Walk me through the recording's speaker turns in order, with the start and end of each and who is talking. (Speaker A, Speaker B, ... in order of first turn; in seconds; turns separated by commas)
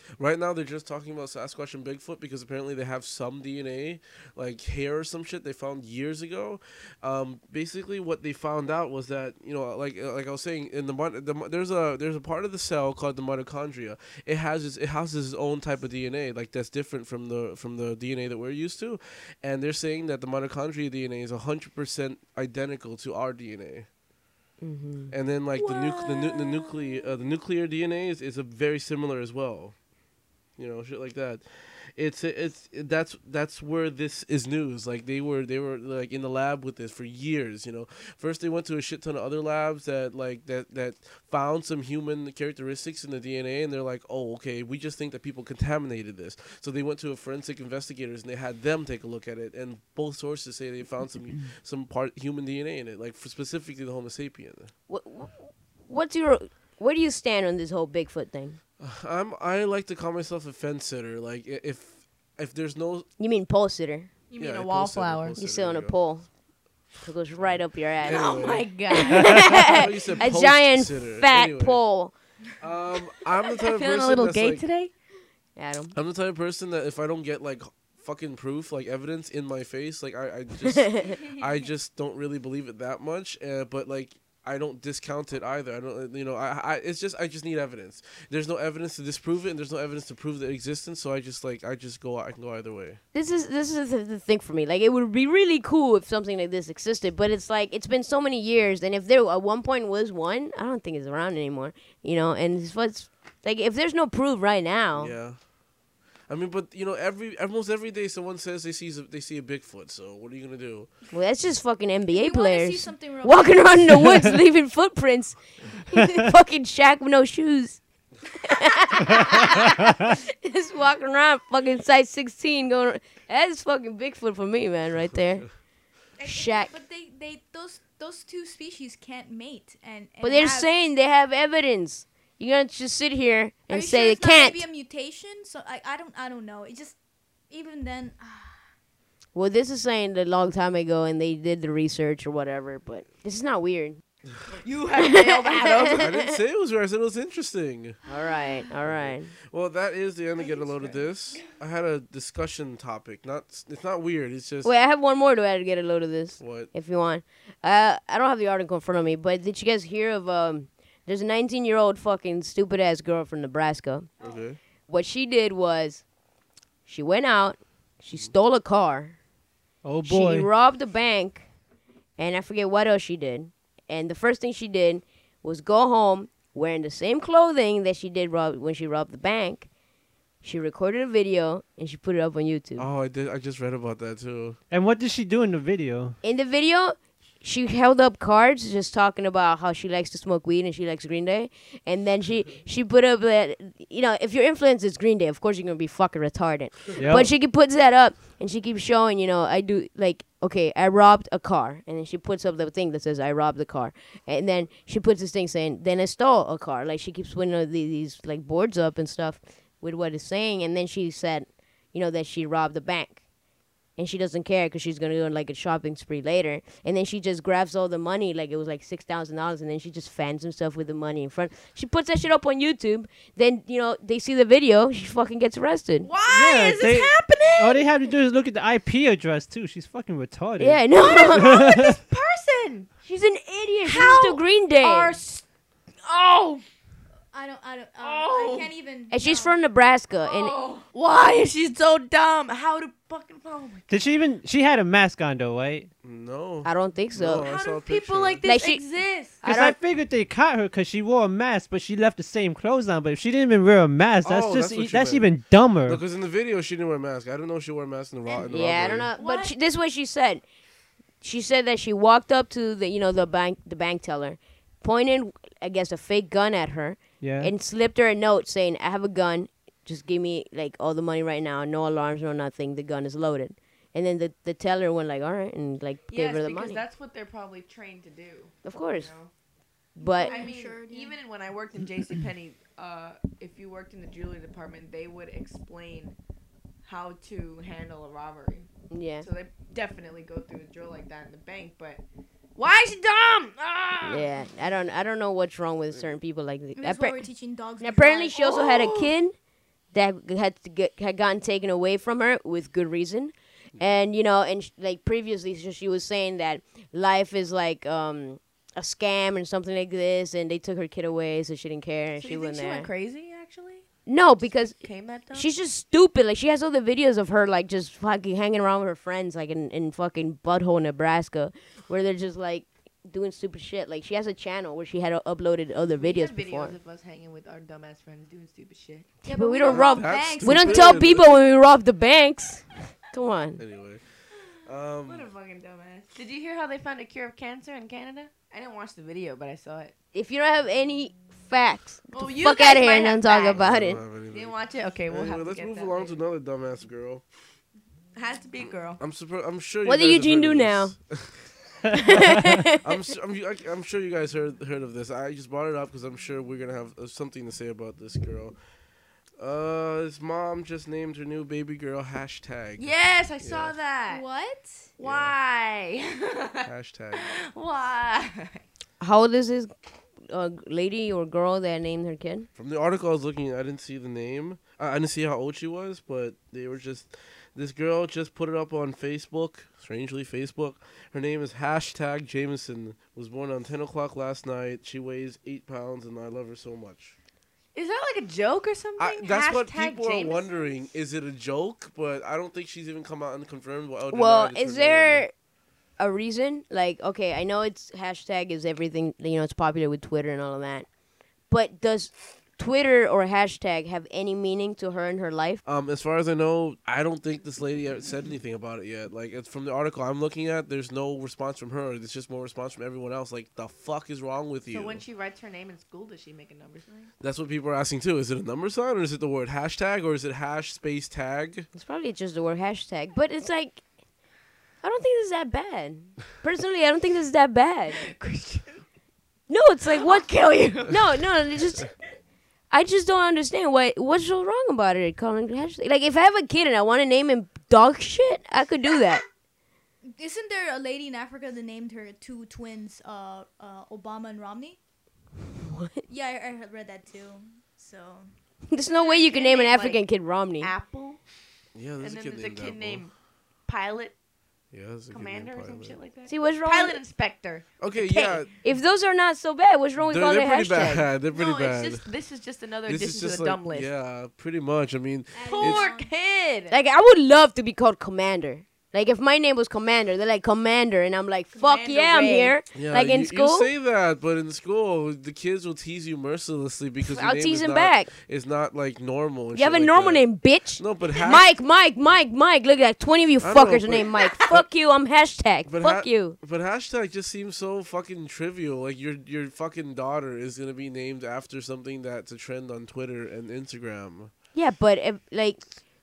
Speaker A: 0.2-23.9, Speaker B: 24.6-25.1, Speaker A: 25.1-29.7, Speaker C: 25.6-27.1, Speaker A: 30.6-54.7, Speaker B: 54.9-58.6, Speaker A: 58.8-63.1, Speaker B: 63.2-64.1, Speaker C: 64.3-65.4, Speaker A: 64.4-65.9, Speaker B: 65.4-66.3, Speaker B: 67.0-72.1, Speaker A: 67.4-71.8, Speaker C: 68.0-69.8, Speaker A: 72.6-74.7, Speaker C: 73.5-74.9, Speaker B: 75.5-75.9, Speaker A: 75.9-93.0, Speaker B: 80.6-81.2, Speaker B: 93.1-105.1, Speaker A: 105.0-105.4, Speaker A: 106.3-110.9, Speaker B: 111.1-117.8, Speaker D: 112.1-114.2, Speaker B: 118.4-125.5, Speaker D: 126.2-130.7, Speaker B: 126.2-126.7, Speaker B: 130.2-134.6, Speaker D: 133.7-137.0, Speaker D: 137.5-138.6, Speaker B: 139.3-144.0, Speaker C: 144.6-146.1, Speaker B: 145.0-146.3, Speaker A: 145.9-148.0, Speaker B: 148.1-149.3, Speaker A: 148.8-154.7, Speaker C: 150.4-151.5, Speaker B: 154.6-164.1, Speaker A: 156.4-156.7, Speaker A: 164.2-164.6, Speaker B: 164.9-166.0, Speaker B: 166.8-169.2, Speaker E: 169.8-170.5, Speaker B: 170.1-171.4, Speaker B: 172.2-179.7, Speaker B: 180.4-182.9, Speaker A: 182.8-184.6, Speaker E: 184.7-186.2, Speaker B: 186.2-213.2, Speaker E: 197.0-197.3, Speaker B: 214.0-226.1, Speaker C: 226.0-227.8, Speaker E: 226.2-231.9, Speaker B: 230.6-231.7, Speaker C: 231.0-232.9, Speaker B: 233.0-235.2, Speaker C: 233.8-235.4, Speaker C: 236.0-236.6, Speaker D: 237.3-239.6, Speaker C: 238.0-238.7, Speaker B: 239.1-240.5, Speaker C: 240.2-243.9, Speaker E: 243.9-245.9, Speaker A: 246.0-248.4, Speaker B: 246.6-247.4, Speaker C: 247.2-249.4, Speaker B: 248.4-248.8, Speaker B: 249.4-249.8, Speaker E: 249.4-256.0, Speaker A: 254.2-255.3, Speaker A: 255.8-259.1, Speaker C: 258.3-259.5, Speaker B: 258.4-260.4, Speaker B: 261.2-276.8, Speaker E: 267.2-267.5, Speaker C: 276.1-279.3, Speaker B: 278.6-279.1, Speaker B: 279.9-280.4, Speaker D: 280.0-281.2, Speaker C: 280.1-286.2, Speaker C: 286.8-288.7, Speaker B: 288.9-289.2, Speaker C: 289.2-292.0, Speaker C: 292.6-294.3, Speaker B: 294.0-297.2, Speaker D: 296.7-298.4, Speaker B: 297.8-299.3, Speaker C: 298.4-299.1, Speaker B: 299.9-312.9, Speaker C: 312.2-313.9, Speaker B: 314.1-314.8, Speaker C: 314.7-315.5, Speaker B: 315.3-326.7, Speaker C: 326.0-329.2, Speaker B: 329.2-333.6, Speaker D: 329.2-331.2, Speaker A: 329.6-331.3, Speaker A: 333.6-334.0, Speaker A: 334.6-335.3, Speaker C: 335.1-339.9, Speaker B: 340.1-344.0, Speaker C: 342.1-343.7, Speaker A: 343.5-344.6, Speaker C: 344.3-346.1, Speaker A: 345.1-347.2, Speaker C: 348.1-349.0, Speaker A: 349.0-351.5, Speaker B: 349.8-350.9, Speaker B: 351.9-353.1, Speaker A: 352.8-358.6, Speaker A: 359.4-363.7, Speaker C: 362.8-364.2, Speaker D: 364.1-364.9, Speaker C: 365.0-368.6, Speaker A: 365.0-365.3, Speaker A: 366.6-367.2, Speaker B: 369.0-369.7, Speaker B: 370.3-372.5, Speaker A: 372.6-387.1, Speaker C: 387.7-390.5, Speaker A: 389.0-395.2, Speaker B: 394.1-395.3, Speaker B: 396.0-400.9, Speaker B: 401.5-405.6, Speaker A: 405.6-415.0, Speaker C: 414.7-417.1, Speaker A: 417.2-421.7, Speaker B: 421.7-423.8, Speaker B: 424.8-428.0, Speaker C: 428.0-428.8, Speaker B: 429.5-431.9, Speaker C: 429.9-431.0, Speaker B: 432.7-439.2, Speaker D: 440.2-444.8, Speaker B: 445.6-446.0, Speaker D: 446.1-448.3, Speaker B: 448.7-450.7, Speaker C: 449.0-450.0, Speaker C: 450.6-451.2, Speaker A: 451.7-453.0, Speaker C: 452.0-453.1, Speaker C: 453.6-454.1, Speaker A: 454.7-456.0, Speaker C: 455.1-457.6, Speaker B: 456.3-457.0, Speaker A: 457.8-458.5, Speaker B: 458.0-461.1, Speaker A: 460.0-462.0, Speaker C: 461.3-463.9, Speaker A: 462.9-465.9, Speaker D: 465.3-466.1, Speaker C: 465.4-466.7, Speaker B: 466.7-473.7, Speaker C: 471.5-472.6, Speaker A: 472.7-480.3, Speaker B: 477.0-478.1, Speaker B: 479.5-486.4, Speaker A: 480.8-481.5, Speaker A: 483.4-484.6, Speaker A: 485.7-494.3, Speaker B: 494.5-495.6